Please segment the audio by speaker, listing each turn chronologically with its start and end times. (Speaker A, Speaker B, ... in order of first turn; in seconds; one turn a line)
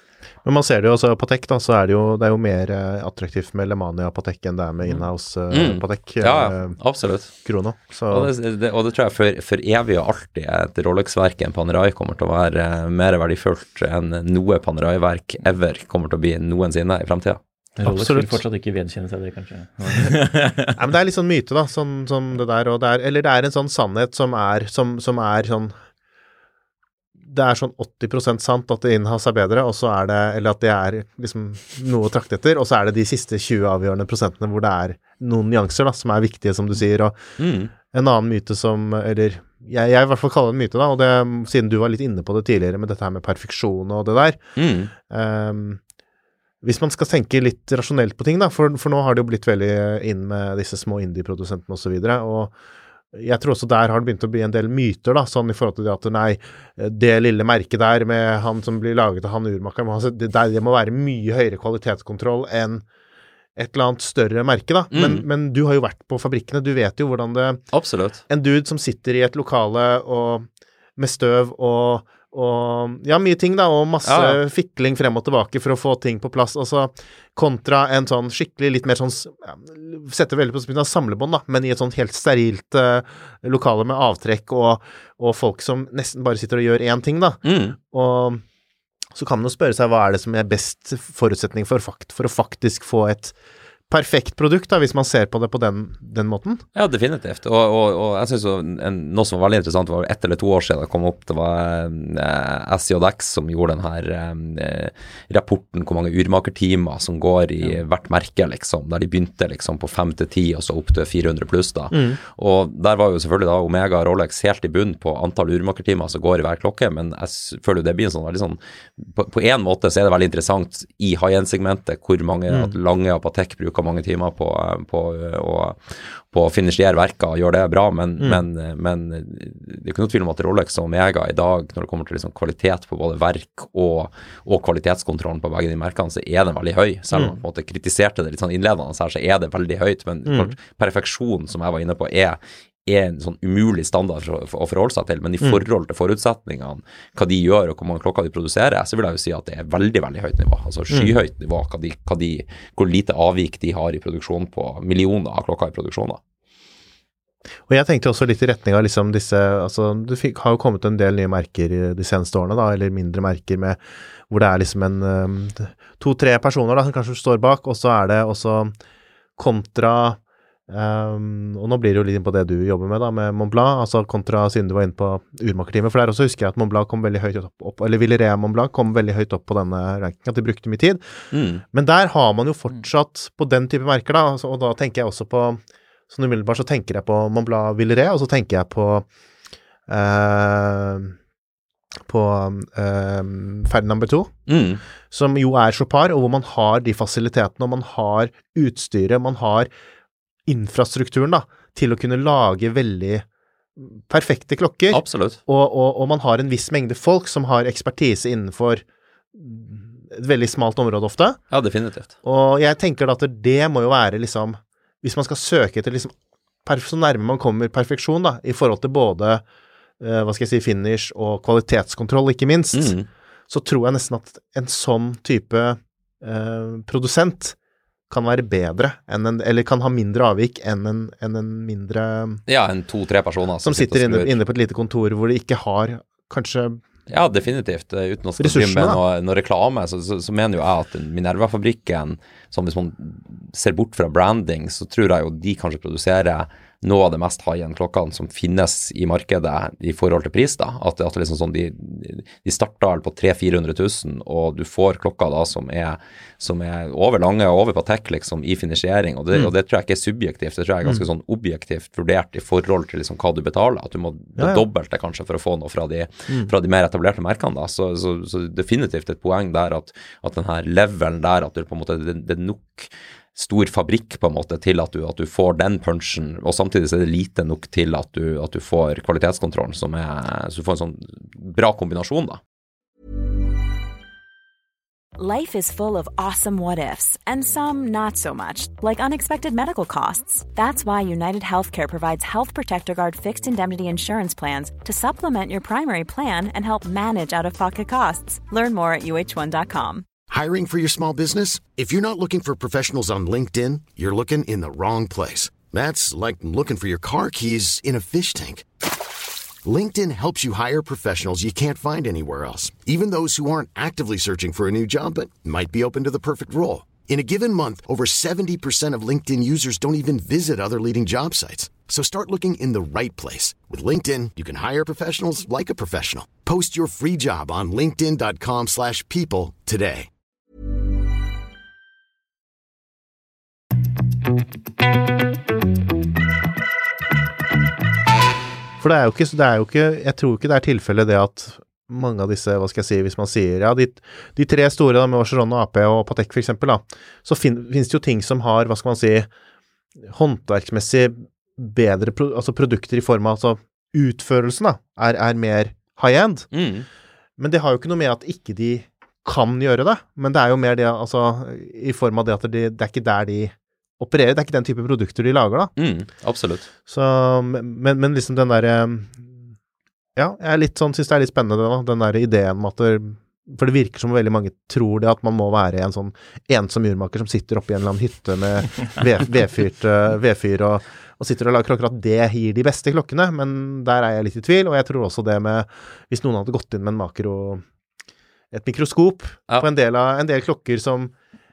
Speaker A: 0.5-6.8
Speaker B: 5.5-7.3
Speaker A: 7.4-8.3
Speaker B: 8.1-17.4
Speaker C: 17.8-20.8
Speaker A: 17.8-18.4
Speaker A: 20.8-25.8
Speaker A: 27.3-37.2
Speaker B: 37.4-37.7
Speaker A: 37.9-44.4
Speaker B: 44.6-44.9
Speaker A: 45.1-45.8
Speaker A: 46.6-52.5
Speaker A: 53.1-62.8
Speaker A: 63.6-67.6
Speaker B: 64.9-65.3
Speaker B: 67.7-68.2
Speaker A: 68.3-88.4
Speaker B: 74.0-74.4
Speaker B: 87.4-87.8
Speaker A: 89.2-93.3
Speaker A: 93.9-96.6
Speaker B: 96.8-156.2
Speaker A: 111.9-112.2
Speaker A: 122.5-122.7
Speaker A: 140.3-140.6
Speaker A: 150.9-151.2
Speaker A: 157.7-168.8
Speaker A: 169.4-181.0
Speaker B: 181.3-181.6
Speaker A: 181.7-189.1
Speaker A: 189.9-191.2
Speaker A: 192.1-194.3
Speaker B: 194.5-194.8
Speaker A: 195.1-199.7
Speaker A: 200.5-203.2
Speaker A: 203.8-208.8
Speaker B: 204.9-205.4
Speaker A: 209.3-211.4
Speaker B: 211.5-212.1
Speaker A: 212.2-216.1
Speaker A: 216.7-219.4
Speaker A: 220.0-222.9
Speaker B: 222.7-223.1
Speaker A: 223.5-227.6
Speaker A: 228.1-232.4
Speaker B: 232.5-234.4
Speaker A: 233.6-236.8
Speaker B: 237.1-282.4
Speaker A: 238.4-239.0
Speaker A: 264.4-264.6
Speaker D: 285.2-300.1
Speaker E: 300.3-308.7
Speaker E: 309.6-330.1
Speaker A: 338.8-349.3
Speaker A: 350.1-356.5
Speaker B: 356.5-356.9
Speaker A: 357.4-365.7
Speaker B: 365.8-366.7
Speaker A: 366.9-369.4
Speaker A: 370.2-387.6
Speaker A: 388.5-391.1